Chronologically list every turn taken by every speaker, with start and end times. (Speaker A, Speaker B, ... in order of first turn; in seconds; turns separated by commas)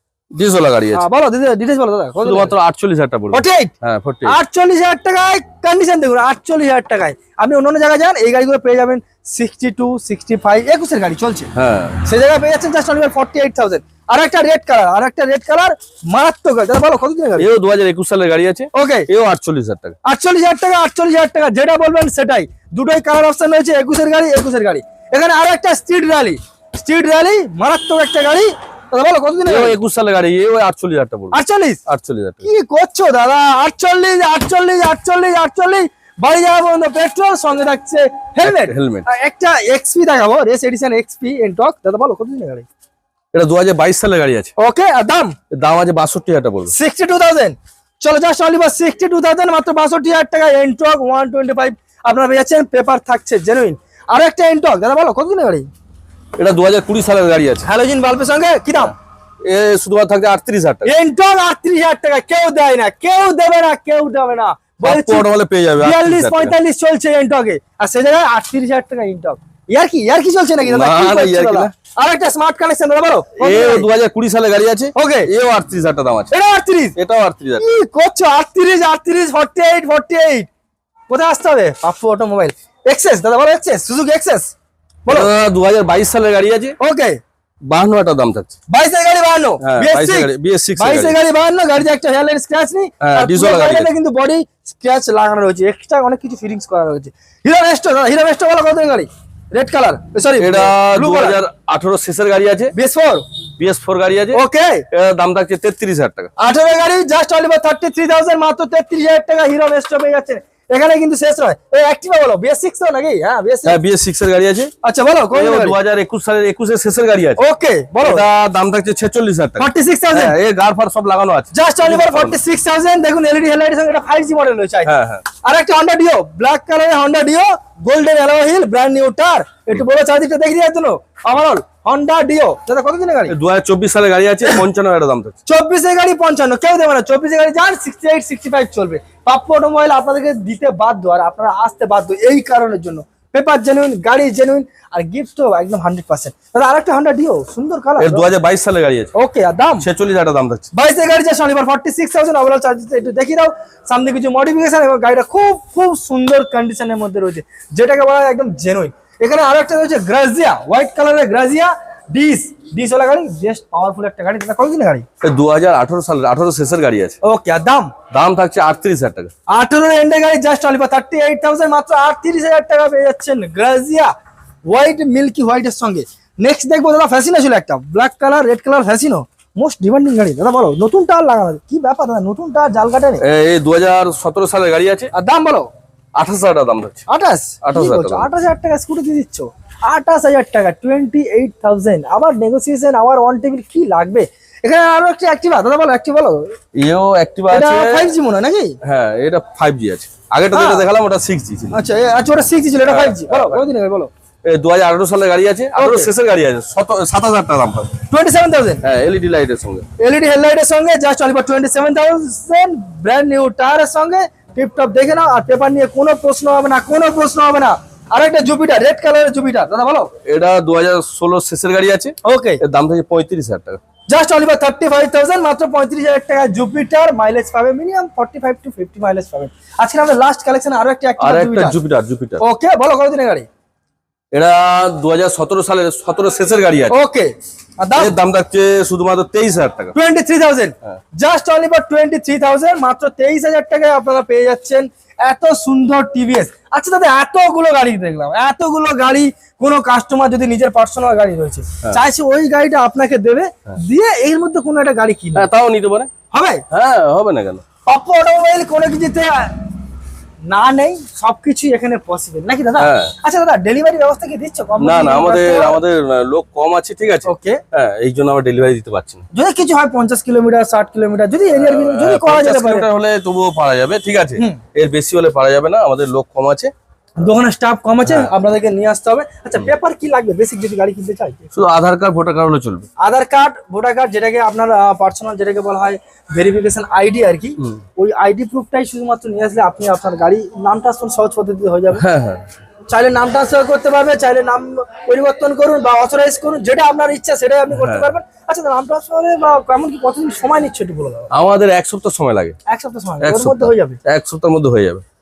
Speaker A: 0.3-1.1, Speaker B: 0.9-2.5, Speaker A: 2.2-4.4, Speaker B: 3.3-3.7, Speaker B: 4.2-11.5, Speaker A: 11.5-12.0, Speaker B: 12.0-17.5, Speaker A: 17.4-20.0, Speaker B: 18.7-19.1, Speaker B: 20.0-29.8, Speaker A: 29.4-32.5, Speaker B: 31.3-31.8, Speaker B: 32.4-42.7, Speaker A: 38.4-39.1, Speaker A: 43.3-44.5, Speaker B: 44.6-45.3, Speaker A: 45.5-46.7, Speaker B: 46.7-55.7, Speaker A: 56.4-57.7, Speaker B: 57.6-59.0, Speaker A: 59.4-60.9, Speaker B: 60.8-65.2, Speaker A: 64.8-66.5, Speaker B: 65.8-73.9, Speaker A: 70.6-71.7, Speaker A: 73.4-76.3, Speaker B: 74.9-75.3, Speaker B: 76.3-77.0, Speaker A: 77.0-77.6, Speaker B: 77.6-80.5, Speaker B: 81.1-84.5, Speaker B: 85.0-85.3, Speaker A: 85.1-86.8, Speaker B: 86.8-87.2, Speaker A: 87.7-88.5, Speaker B: 88.7-101.4, Speaker A: 89.6-91.2, Speaker A: 93.0-93.9, Speaker A: 100.4-102.7, Speaker B: 102.7-103.2, Speaker A: 103.6-106.3, Speaker B: 104.3-104.8, Speaker B: 106.4-113.8, Speaker A: 113.7-114.7, Speaker B: 114.8-115.8, Speaker A: 115.3-117.4, Speaker B: 117.4-118.2, Speaker A: 118.0-122.4, Speaker B: 119.6-120.3, Speaker B: 121.5-124.9, Speaker A: 124.8-125.2, Speaker B: 125.4-133.3, Speaker A: 133.3-135.4, Speaker B: 135.5-148.2, Speaker A: 148.0-149.1, Speaker B: 149.1-149.8, Speaker A: 149.8-150.7, Speaker B: 150.7-165.1, Speaker A: 165.2-167.2, Speaker B: 167.2-167.9, Speaker A: 168.1-169.3, Speaker B: 169.5-174.1, Speaker B: 174.7-183.2, Speaker A: 183.2-185.1, Speaker B: 185.1-185.7, Speaker A: 186.1-187.0, Speaker B: 187.1-196.5, Speaker A: 187.6-188.3, Speaker A: 196.7-198.1, Speaker B: 197.5-198.8, Speaker A: 198.8-201.8, Speaker B: 200.5-200.9, Speaker B: 201.7-204.1, Speaker A: 202.8-203.6, Speaker A: 204.4-207.9, Speaker B: 205.7-206.1, Speaker B: 208.1-208.8, Speaker A: 208.8-209.8, Speaker B: 210.0-220.1, Speaker A: 220.2-223.8, Speaker B: 222.2-222.6, Speaker B: 224.1-231.8, Speaker A: 231.2-232.4, Speaker B: 232.4-233.5, Speaker A: 234.3-237.0, Speaker B: 236.9-238.1, Speaker A: 237.9-239.9, Speaker B: 239.9-255.5, Speaker A: 255.3-256.1, Speaker B: 256.3-256.6, Speaker A: 256.7-257.6, Speaker B: 257.9-259.6, Speaker B: 260.5-265.8, Speaker A: 262.8-263.1, Speaker A: 264.8-269.2, Speaker B: 267.2-267.6, Speaker B: 269.3-272.9, Speaker A: 271.5-276.7, Speaker B: 277.2-281.5, Speaker A: 278.1-278.3, Speaker A: 281.5-282.9, Speaker B: 283.0-292.0, Speaker A: 291.9-292.5, Speaker B: 292.9-301.3, Speaker A: 297.7-298.1, Speaker A: 301.3-302.6, Speaker B: 302.7-304.0, Speaker A: 303.2-305.0